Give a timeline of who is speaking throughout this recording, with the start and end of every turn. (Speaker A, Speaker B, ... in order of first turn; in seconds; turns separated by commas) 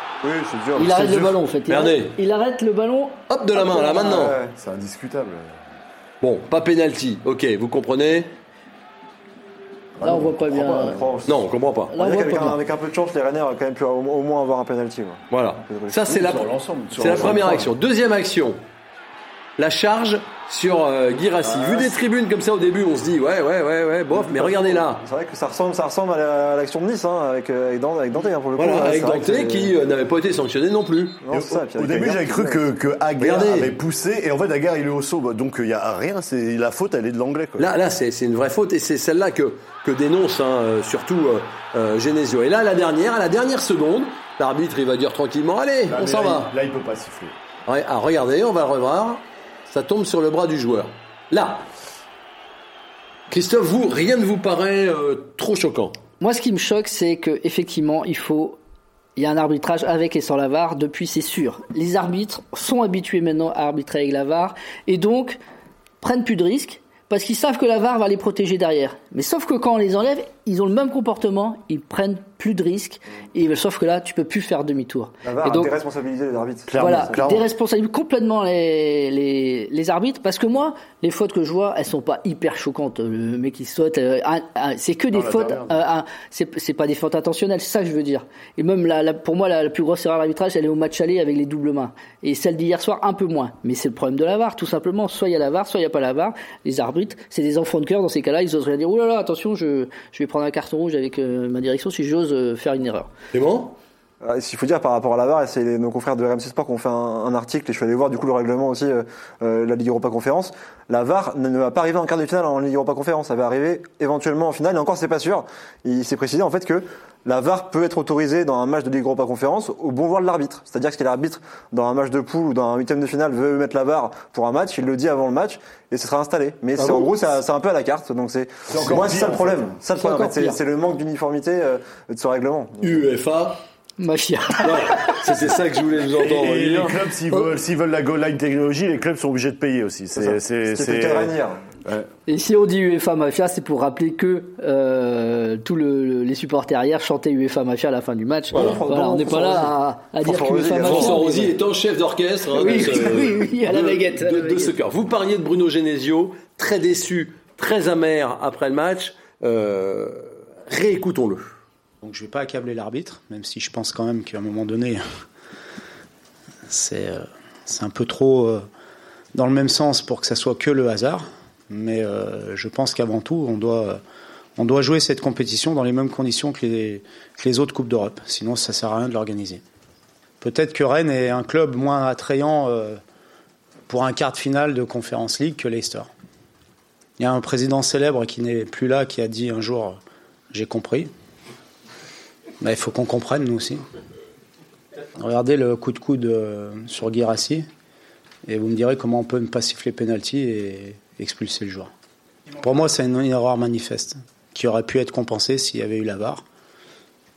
Speaker A: 0.2-1.1, Speaker B: 0.8-4.2, Speaker C: 1.7-2.1, Speaker C: 3.3-4.4, Speaker A: 3.8-4.5, Speaker D: 4.5-5.6, Speaker C: 6.2-8.3, Speaker D: 10.0-11.2, Speaker B: 10.0-11.0, Speaker A: 10.7-11.3, Speaker C: 11.2-11.9, Speaker B: 11.9-12.6, Speaker A: 11.9-16.3, Speaker C: 15.3-18.6, Speaker D: 16.1-17.7, Speaker A: 17.0-17.4, Speaker C: 19.6-25.0, Speaker D: 21.4-21.9, Speaker A: 24.2-29.8, Speaker C: 28.6-31.2, Speaker A: 31.2-32.6, Speaker D: 31.3-37.7, Speaker C: 33.2-33.7, Speaker C: 37.6-46.5, Speaker D: 45.9-47.3, Speaker C: 47.7-51.7, Speaker C: 53.3-56.0, Speaker B: 56.2-58.6, Speaker B: 59.2-65.4, Speaker B: 66.0-75.7, Speaker A: 75.2-77.2, Speaker D: 76.7-77.5, Speaker B: 76.8-103.1, Speaker D: 85.1-85.8, Speaker C: 103.3-103.8, Speaker A: 104.2-133.1, Speaker C: 126.8-127.1, Speaker D: 128.7-129.7, Speaker B: 129.9-130.6, Speaker C: 132.8-133.6, Speaker B: 134.0-135.2, Speaker C: 134.6-137.1, Speaker D: 136.2-141.3, Speaker A: 140.2-141.6, Speaker B: 142.3-151.5, Speaker A: 148.5-151.5, Speaker C: 148.5-148.8, Speaker C: 150.8-161.4, Speaker B: 152.6-154.7, Speaker E: 162.0-165.0, Speaker E: 166.7-168.7, Speaker E: 169.3-174.0, Speaker E: 174.6-179.6, Speaker E: 180.4-183.0, Speaker E: 183.9-186.1, Speaker E: 187.2-190.0, Speaker E: 190.5-191.1, Speaker E: 192.6-193.8, Speaker E: 195.2-197.7, Speaker E: 198.5-201.9, Speaker E: 202.6-206.4